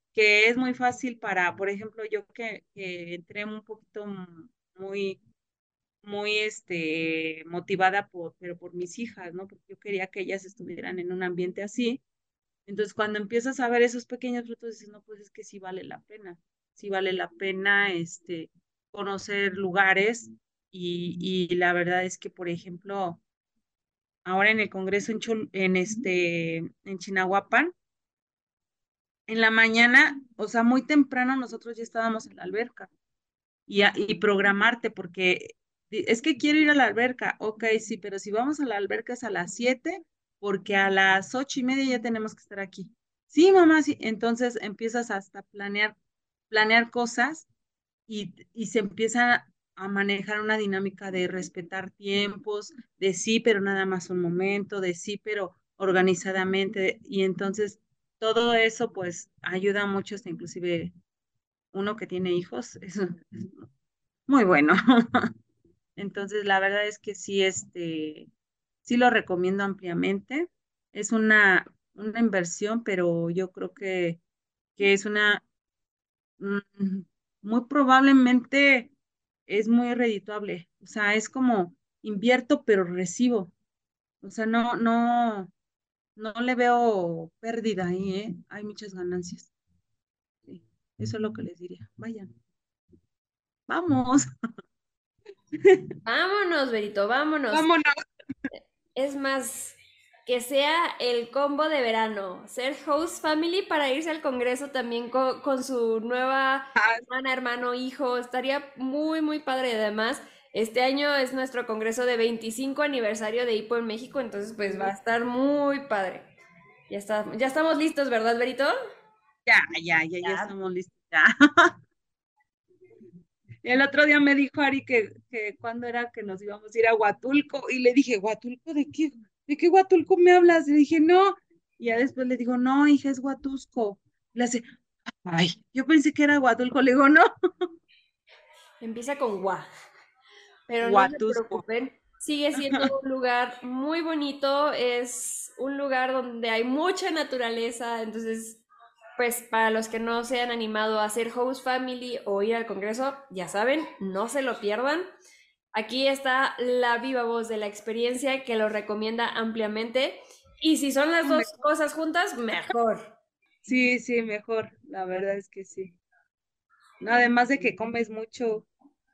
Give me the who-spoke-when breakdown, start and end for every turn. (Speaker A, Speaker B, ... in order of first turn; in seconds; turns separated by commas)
Speaker A: 0.1-5.2, Speaker A: 6.0-12.0, Speaker A: 12.7-23.2, Speaker A: 24.2-27.7, Speaker A: 29.3-32.9, Speaker A: 33.7-46.0, Speaker A: 46.5-47.5, Speaker A: 48.1-60.9, Speaker A: 61.7-63.7, Speaker A: 64.3-65.3, Speaker A: 66.0-68.3, Speaker A: 68.8-74.2, Speaker A: 74.8-75.4, Speaker A: 76.4-78.9, Speaker A: 79.5-83.5, Speaker A: 84.2-85.5, Speaker A: 86.2-89.5, Speaker A: 90.5-92.3, Speaker A: 93.7-94.3, Speaker B: 96.0-97.7, Speaker A: 97.5-98.0, Speaker B: 98.5-116.3, Speaker A: 106.8-107.0, Speaker A: 114.6-114.9, Speaker B: 116.9-118.7, Speaker A: 119.5-121.7, Speaker B: 120.2-120.5, Speaker A: 123.6-134.6, Speaker A: 135.2-137.3, Speaker B: 138.8-139.7, Speaker B: 140.7-148.6, Speaker A: 140.8-141.6, Speaker A: 142.6-142.9, Speaker B: 149.2-155.1, Speaker B: 155.7-163.1, Speaker A: 163.7-165.9, Speaker A: 167.0-168.7